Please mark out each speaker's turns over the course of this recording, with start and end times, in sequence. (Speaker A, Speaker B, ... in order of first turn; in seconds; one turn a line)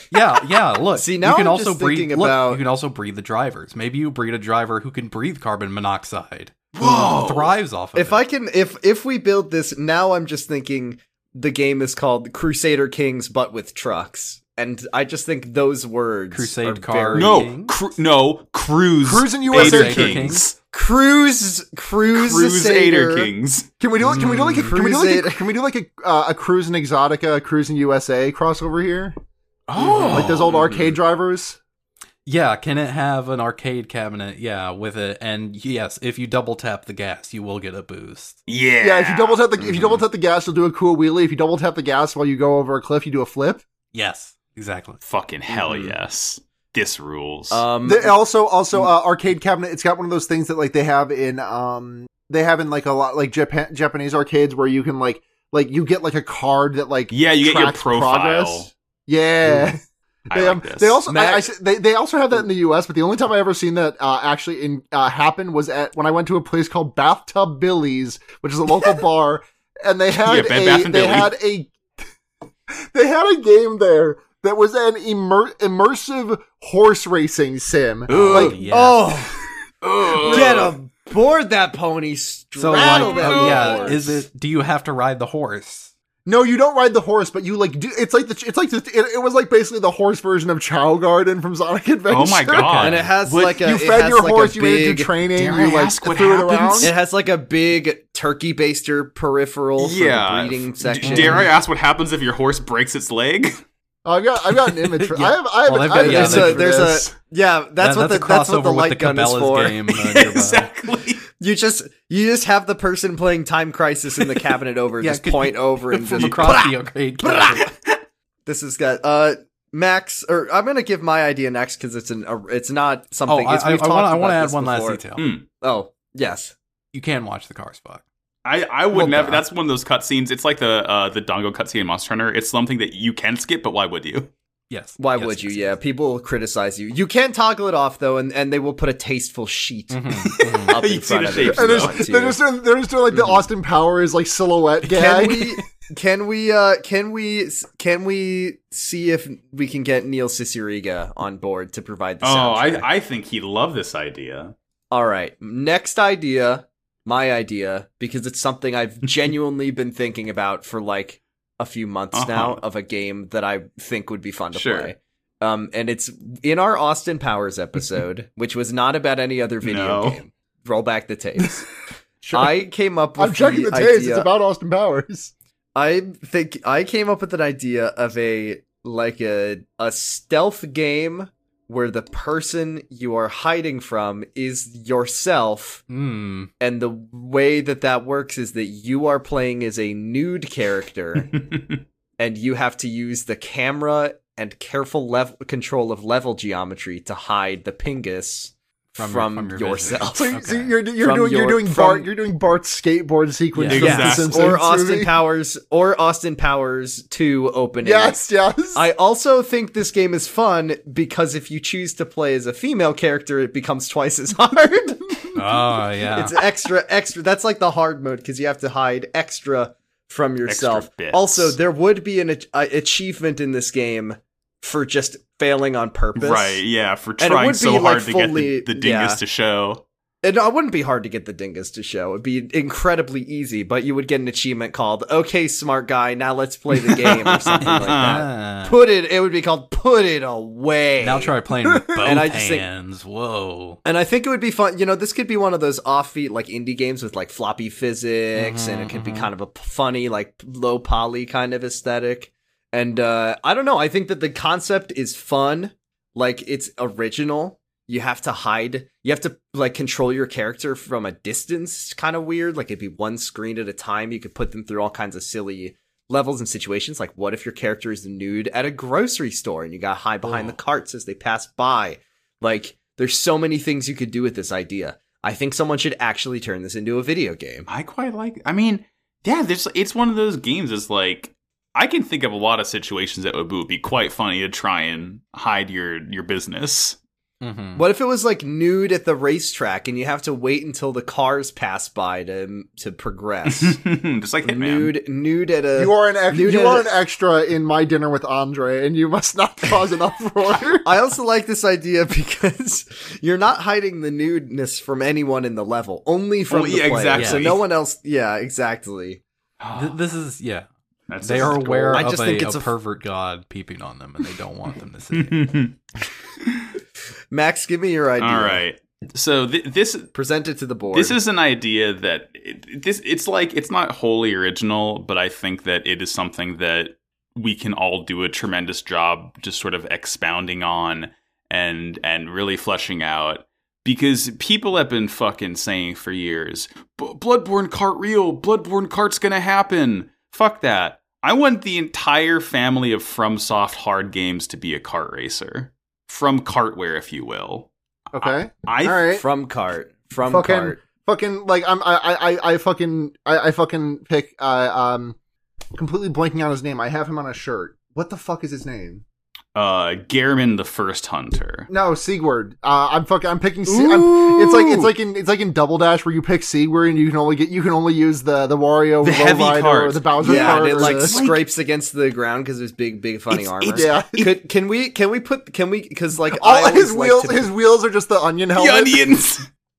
Speaker A: 0.1-8.2
Speaker B: 1.0-2.6
Speaker C: 6.8-7.5
Speaker B: 8.0-17.5
Speaker A: 16.3-17.8
Speaker C: 17.1-20.6
Speaker D: 19.0-20.3
Speaker A: 19.5-20.5
Speaker B: 20.7-23.3
Speaker C: 22.1-23.7
Speaker D: 23.8-29.1
Speaker A: 24.0-24.7
Speaker B: 24.2-25.5
Speaker C: 29.7-30.9
Speaker D: 29.8-31.6
Speaker B: 29.9-30.3
Speaker A: 32.3-38.4
Speaker C: 38.5-39.5
Speaker D: 38.8-43.6
Speaker A: 43.9-45.0
Speaker C: 45.0-47.6
Speaker B: 45.5-46.0
Speaker B: 47.5-48.1
Speaker D: 47.9-71.7
Speaker C: 57.1-58.7
Speaker C: 60.3-61.0
Speaker B: 61.1-61.5
Speaker C: 70.2-71.3
Speaker D: 72.9-78.5
Speaker A: 78.1-79.2
Speaker B: 78.2-79.3
Speaker C: 79.8-80.8
Speaker B: 80.2-84.2
Speaker A: 82.6-85.9
Speaker C: 82.8-84.0
Speaker D: 86.3-96.9
Speaker C: 92.1-93.1
Speaker A: 92.7-93.1
Speaker B: 92.8-95.1
Speaker C: 95.3-96.9
Speaker B: 96.8-101.5
Speaker C: 99.8-103.6
Speaker A: 101.0-101.5
Speaker D: 104.0-107.1
Speaker A: 105.0-107.0
Speaker B: 105.9-109.8
Speaker A: 107.8-110.7
Speaker C: 110.0-111.2
Speaker B: 111.3-117.6
Speaker A: 115.0-117.7
Speaker C: 116.2-116.6
Speaker C: 117.6-118.0
Speaker B: 118.5-125.0
Speaker A: 123.3-125.2
Speaker C: 125.2-125.5
Speaker B: 125.6-126.5
Speaker A: 126.9-128.0
Speaker C: 128.4-134.3
Speaker A: 128.9-129.4
Speaker A: 134.7-135.8
Speaker B: 135.0-142.4
Speaker A: 139.9-140.8
Speaker C: 140.7-142.0
Speaker D: 141.4-145.6
Speaker A: 144.8-145.6
Speaker B: 144.9-152.9
Speaker C: 152.2-154.5
Speaker B: 154.9-171.7
Speaker C: 162.1-162.6
Speaker C: 164.5-164.9
Speaker C: 169.6-170.2
Speaker D: 172.2-172.6
Speaker B: 172.3-174.3
Speaker D: 173.2-175.3
Speaker B: 175.8-185.8
Speaker A: 185.9-186.5
Speaker B: 186.6-191.4
Speaker C: 191.3-191.8
Speaker B: 192.2-200.4
Speaker A: 199.0-200.7
Speaker D: 200.1-205.2
Speaker B: 200.9-202.1
Speaker A: 203.5-204.0
Speaker C: 203.7-204.6
Speaker B: 203.8-208.2
Speaker D: 207.8-208.8
Speaker B: 208.8-215.3
Speaker A: 215.3-216.3
Speaker B: 216.1-226.6
Speaker C: 220.5-221.6
Speaker C: 226.2-229.8
Speaker B: 227.2-229.2
Speaker B: 230.2-241.3
Speaker C: 236.7-238.2
Speaker A: 237.6-238.8
Speaker A: 241.0-243.8
Speaker D: 241.6-242.1
Speaker B: 242.0-242.7
Speaker B: 243.8-277.7
Speaker A: 248.3-249.3
Speaker A: 270.3-270.5
Speaker C: 277.7-287.0
Speaker A: 287.4-287.8
Speaker B: 287.8-293.8
Speaker C: 293.5-294.9
Speaker B: 294.4-297.0
Speaker D: 295.8-300.9
Speaker B: 300.8-309.2
Speaker C: 306.5-307.6
Speaker A: 307.1-307.6
Speaker C: 309.6-310.0
Speaker A: 309.7-310.7
Speaker C: 311.1-312.1
Speaker A: 311.2-315.5
Speaker B: 311.4-312.7
Speaker C: 315.1-315.8
Speaker C: 316.4-316.7
Speaker B: 317.3-318.6
Speaker C: 318.2-320.1
Speaker B: 320.1-321.2
Speaker C: 320.9-349.1
Speaker D: 348.1-349.2
Speaker B: 349.1-350.8
Speaker D: 350.2-355.2
Speaker D: 355.8-359.0
Speaker C: 359.6-361.7
Speaker D: 361.7-371.2
Speaker B: 363.7-364.9
Speaker C: 369.0-371.4
Speaker B: 370.2-377.5
Speaker C: 373.3-374.3
Speaker D: 373.7-374.2
Speaker D: 376.3-379.2
Speaker C: 378.6-379.5